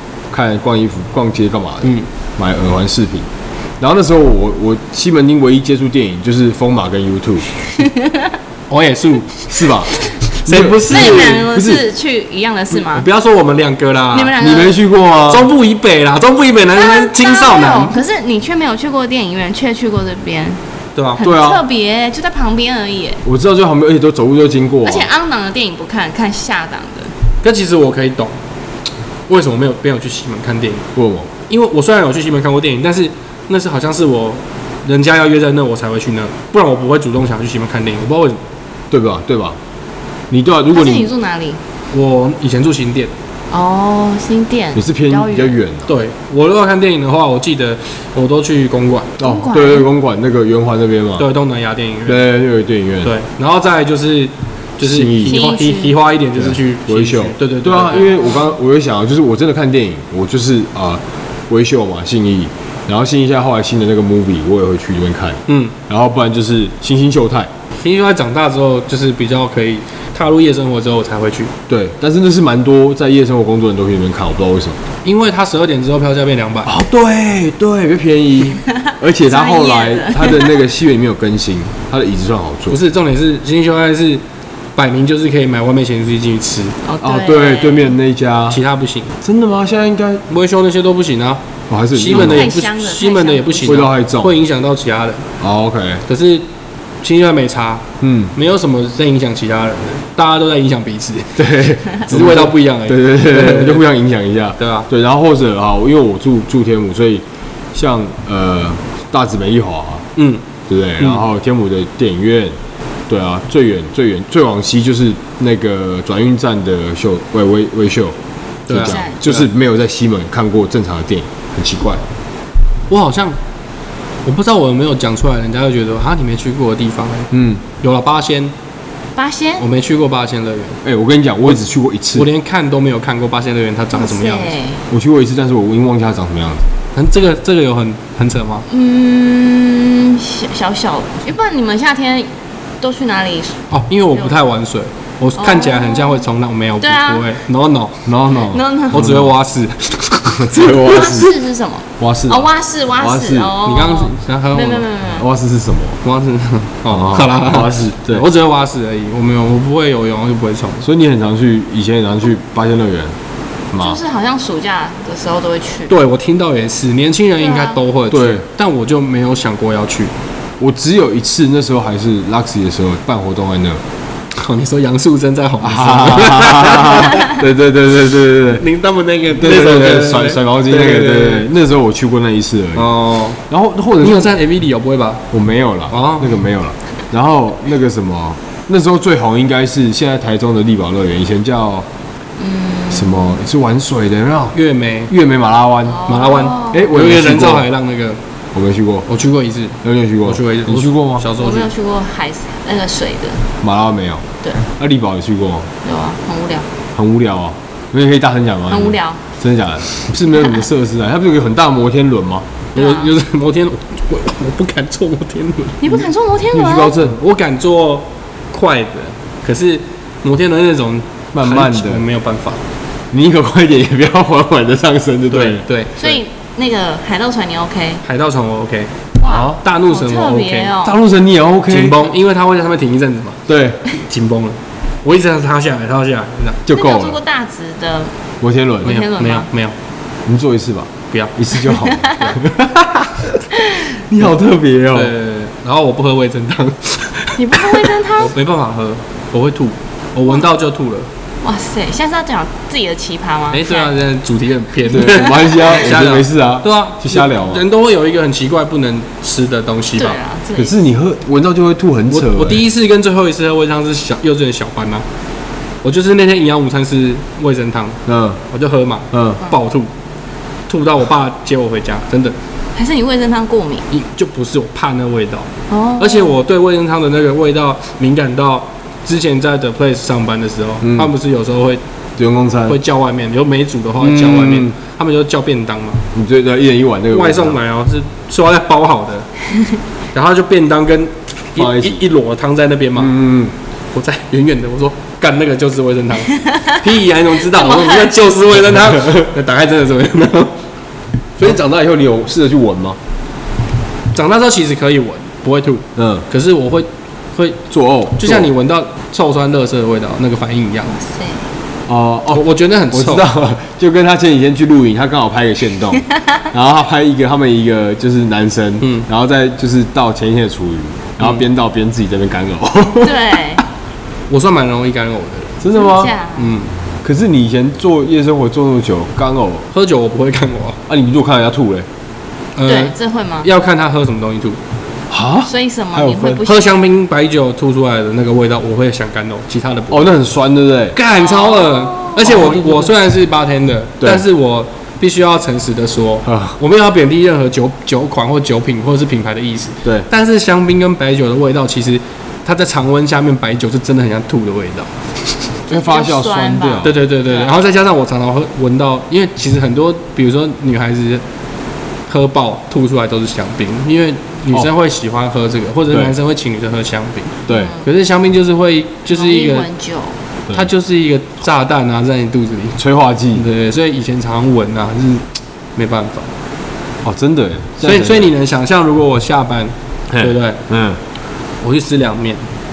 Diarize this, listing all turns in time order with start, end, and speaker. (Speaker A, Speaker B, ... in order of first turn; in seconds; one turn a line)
Speaker A: 0.3-3.3
Speaker A: 3.8-7.5
Speaker B: 7.7-8.4
Speaker C: 8.7-11.5
Speaker A: 9.5-9.9
Speaker A: 10.4-11.8
Speaker B: 10.9-13.1
Speaker C: 12.7-14.3
Speaker B: 14.1-14.8
Speaker A: 14.4-15.5
Speaker C: 15.3-17.9
Speaker B: 16.7-20.6
Speaker C: 21.0-21.2
Speaker B: 21.2-23.2
Speaker A: 21.2-21.6
Speaker A: 23.2-25.1
Speaker B: 24.8-27.1
Speaker C: 27.4-28.4
Speaker C: 29.3-30.9
Speaker A: 30.9-31.3
Speaker C: 31.5-38.4
Speaker A: 38.9-39.6
Speaker A: 40.3-41.1
Speaker B: 40.7-41.6
Speaker C: 41.9-43.1
Speaker B: 43.5-45.6
Speaker A: 44.7-45.9
Speaker C: 45.9-49.2
Speaker A: 49.2-51.3
Speaker B: 49.2-49.9
Speaker C: 51.2-52.2
Speaker A: 52.1-53.1
Speaker C: 53.0-58.1
Speaker A: 54.8-55.5
Speaker B: 55.2-56.0
Speaker A: 56.4-67.5
Speaker B: 58.1-58.5
Speaker C: 65.5-65.7
Speaker C: 67.8-71.5
Speaker A: 71.7-74.8
Speaker C: 75.0-76.8
Speaker A: 76.7-82.8
Speaker B: 79.2-80.6
Speaker C: 82.7-84.2
Speaker C: 84.8-86.8
Speaker B: 86.8-88.0
Speaker A: 87.0-88.6
Speaker C: 88.5-89.1
Speaker A: 89.2-90.2
Speaker C: 90.3-91.4
Speaker A: 91.7-92.5
Speaker C: 91.9-95.3
Speaker B: 92.1-93.9
Speaker A: 93.6-94.3
Speaker A: 95.4-96.0
Speaker C: 96.1-96.4
Speaker C: 97.0-103.8
Speaker A: 98.0-98.3
Speaker A: 101.4-110.1
Speaker C: 104.6-104.9
Speaker C: 110.2-110.4
Speaker A: 110.7-112.6
Speaker A: 113.1-118.2
Speaker C: 118.7-119.5
Speaker A: 118.7-122.0
Speaker B: 118.7-119.2
Speaker C: 122.9-123.4
Speaker C: 124.2-128.5
Speaker A: 127.3-127.6
Speaker B: 129.2-129.7
Speaker C: 129.6-130.8
Speaker A: 130.8-132.3
Speaker C: 132.1-134.6
Speaker B: 133.9-134.8
Speaker A: 134.9-136.7
Speaker C: 136.9-138.7
Speaker B: 138.7-142.3
Speaker B: 142.8-144.3
Speaker C: 143.7-148.1
Speaker B: 145.4-146.3
Speaker B: 146.8-147.4
Speaker A: 148.1-149.3
Speaker B: 148.3-149.1
Speaker C: 148.9-150.6
Speaker A: 150.3-151.4
Speaker B: 150.5-155.3
Speaker A: 152.0-153.6
Speaker C: 153.6-154.9
Speaker A: 155.2-156.0
Speaker C: 156.0-160.9
Speaker A: 156.9-158.3
Speaker A: 160.8-163.2
Speaker A: 163.7-164.0
Speaker B: 163.8-165.9
Speaker C: 165.9-170.1
Speaker B: 167.4-167.8
Speaker A: 168.1-168.4
Speaker A: 170.6-173.8
Speaker C: 174.3-177.3
Speaker A: 175.6-178.6
Speaker C: 178.6-181.5
Speaker A: 179.4-182.9
Speaker C: 182.8-183.4
Speaker A: 183.5-184.4
Speaker C: 184.0-185.2
Speaker A: 185.3-191.9
Speaker C: 185.9-186.3
Speaker B: 192.4-193.4
Speaker A: 192.9-194.6
Speaker C: 194.5-195.1
Speaker A: 195.1-196.1
Speaker B: 195.9-196.9
Speaker C: 196.1-198.2
Speaker A: 196.7-197.7
Speaker A: 198.5-199.1
Speaker C: 199.1-201.7
Speaker A: 199.8-201.3
Speaker B: 201.3-203.5
Speaker A: 203.6-204.3
Speaker A: 204.8-205.7
Speaker B: 205.8-206.7
Speaker A: 206.9-212.5
Speaker B: 208.7-209.2
Speaker C: 212.7-216.0
Speaker B: 212.8-213.1
Speaker B: 215.8-217.0
Speaker A: 216.5-217.2
Speaker C: 217.0-222.6
Speaker A: 221.3-222.0
Speaker A: 223.1-225.6
Speaker C: 225.3-226.2
Speaker B: 226.0-228.0
Speaker C: 228.0-230.8
Speaker B: 229.2-231.0
Speaker A: 229.2-229.6
Speaker A: 230.8-232.1
Speaker C: 231.7-236.6
Speaker A: 233.5-233.8
Speaker A: 236.7-237.2
Speaker B: 236.7-238.1
Speaker A: 238.4-239.0
Speaker B: 238.8-239.5
Speaker C: 238.8-239.7
Speaker A: 240.3-245.1
Speaker B: 241.6-242.4
Speaker C: 244.9-251.1
Speaker B: 247.4-248.3
Speaker B: 251.4-253.9
Speaker C: 253.5-260.2
Speaker A: 254.9-257.6
Speaker B: 260.0-260.8
Speaker A: 260.6-262.6
Speaker C: 262.1-265.1
Speaker C: 265.8-269.9
Speaker A: 268.1-268.4
Speaker A: 269.1-269.4
Speaker C: 270.7-272.4
Speaker B: 272.8-273.9
Speaker C: 273.9-281.8
Speaker B: 275.7-276.4
Speaker A: 280.8-281.1
Speaker A: 282.2-282.8
Speaker C: 282.7-286.0
Speaker A: 284.0-284.7
Speaker A: 286.1-287.6
Speaker C: 287.1-289.3
Speaker C: 290.1-293.1
Speaker A: 291.6-292.0
Speaker A: 293.0-293.5
Speaker C: 293.9-300.6
Speaker B: 297.6-298.1
Speaker A: 299.0-299.2
Speaker A: 301.4-303.0
Speaker C: 304.1-307.6
Speaker A: 306.0-306.3
Speaker A: 307.7-308.5
Speaker C: 308.2-311.0
Speaker B: 311.0-311.4
Speaker A: 311.9-323.2
Speaker C: 312.3-313.2
Speaker C: 318.8-319.1
Speaker B: 323.0-323.6
Speaker C: 324.3-325.6
Speaker A: 325.6-326.1
Speaker B: 325.7-326.6
Speaker C: 326.4-326.7
Speaker A: 327.0-329.7
Speaker C: 329.7-330.8
Speaker A: 330.9-331.9
Speaker C: 332.6-334.6
Speaker B: 332.6-333.5
Speaker A: 335.1-336.4
Speaker B: 335.4-336.8
Speaker C: 336.4-340.1
Speaker A: 339.9-341.0
Speaker C: 340.9-354.9
Speaker B: 341.1-342.6
Speaker A: 342.2-342.9
Speaker A: 344.0-344.2
Speaker A: 346.2-346.6
Speaker B: 355.7-357.5
Speaker A: 355.7-357.0
Speaker C: 356.8-361.2
Speaker C: 362.1-369.7
Speaker A: 367.5-367.7
Speaker B: 367.5-367.8
Speaker B: 369.1-370.2
Speaker C: 370.5-372.8
Speaker A: 372.8-373.4
Speaker C: 373.3-376.3
Speaker A: 377.0-378.3
Speaker C: 377.8-380.6
Speaker A: 380.1-381.0
Speaker C: 381.6-382.4